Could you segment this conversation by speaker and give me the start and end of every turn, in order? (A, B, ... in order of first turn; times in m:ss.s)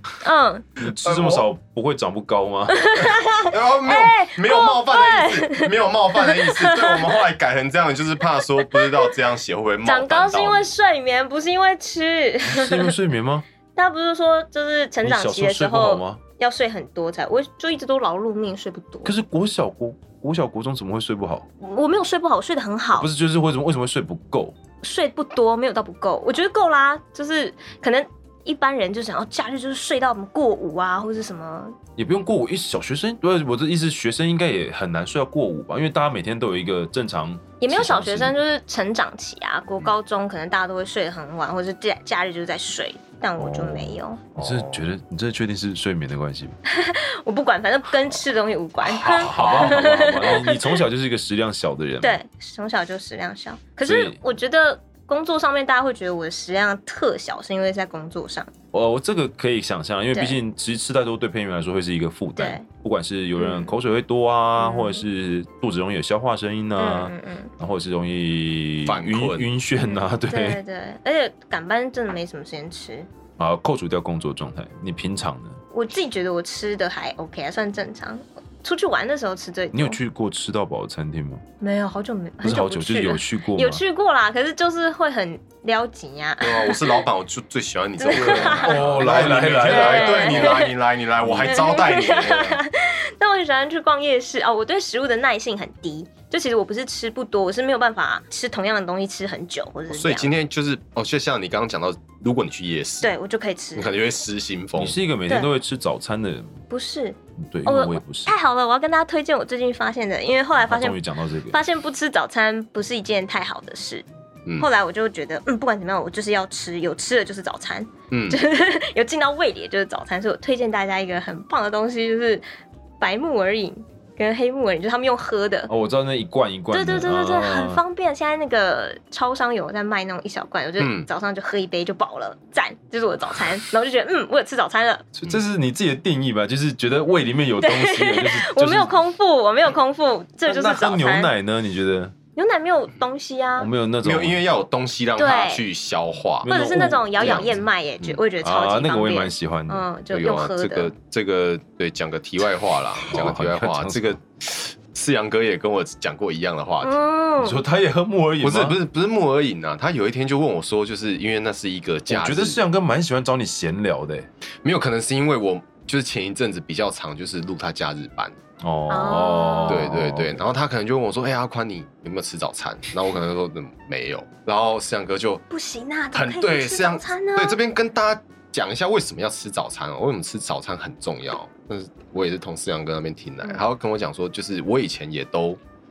0:00.2-0:00.6 A
0:00.8-0:03.0 B
0:00.8-0:01.5 C
0:02.7-0:07.2 A
0:03.4-0:10.7 C
0:08.6-0:09.1 A
0:09.8-0:12.9 A
0:12.4-0:13.4 B
0:13.7-0:19.1 A
0:15.0-0:16.2 B
0:19.0-0:21.5 B
0:21.6-0:23.1 A
0:22.9-0:24.6 B
0:24.8-0:31.8 A
0:32.0-0:38.4 B
0:37.6-0:44.2 A
0:43.4-0:46.6 B
0:44.4-0:44.9 C
0:46.7-0:50.8 A
0:48.8-0:50.4 C
0:49.0-0:52.2 B
0:52.0-0:58.5 A
0:53.8-0:54.2 B
0:58.7-1:10.6 B
1:00.1-1:00.4 A
1:02.4-1:02.6 A
1:03.4-1:03.7 A
1:04.6-1:05.0 A
1:06.8-1:07.5 A
1:08.8-1:09.5 C
1:09.8-1:13.1 A
1:13.4-1:15.6 B
1:15.7-1:20.0 A
1:19.7-1:21.4 B
1:21.6-1:27.0 A
1:22.4-1:23.8 B
1:26.4-1:32.6 C
1:28.0-1:30.8 A
1:28.1-1:30.7 B
1:31.2-1:32.6 B
1:31.4-1:40.3 A
1:39.9-1:43.1 C
1:43.0-1:44.0 A
1:43.7-1:45.0 C
1:44.8-1:46.6 B
1:46.7-1:54.0 A
1:47.4-1:48.3 B
1:50.6-1:51.6 B
1:54.6-2:02.4 A
1:58.1-1:58.4 C
2:03.0-2:05.7 A
2:05.7-2:07.8 B
2:06.7-2:15.1 A
2:10.8-2:11.1 C
2:15.2-2:18.9 B
2:17.6-2:21.3 A
2:20.4-2:22.2 B
2:22.4-2:23.7 A
2:23.6-2:24.4 B
2:24.0-2:26.5 C
2:25.2-2:25.6 A
2:26.4-2:27.6 B
2:26.5-2:30.9 A
2:27.2-2:28.2 C
2:28.4-2:29.9 B
2:30.1-2:36.9 C
2:33.1-2:34.2 B
2:36.8-2:37.6 A
2:37.4-2:38.8 B
2:38.4-2:42.6 C
2:42.1-2:44.3 B
2:44.6-2:48.4 C
2:48.6-2:50.4 B
2:48.9-2:49.9 A
2:49.6-2:55.4 C
2:55.5-2:57.6 A
2:56.1-3:05.6 C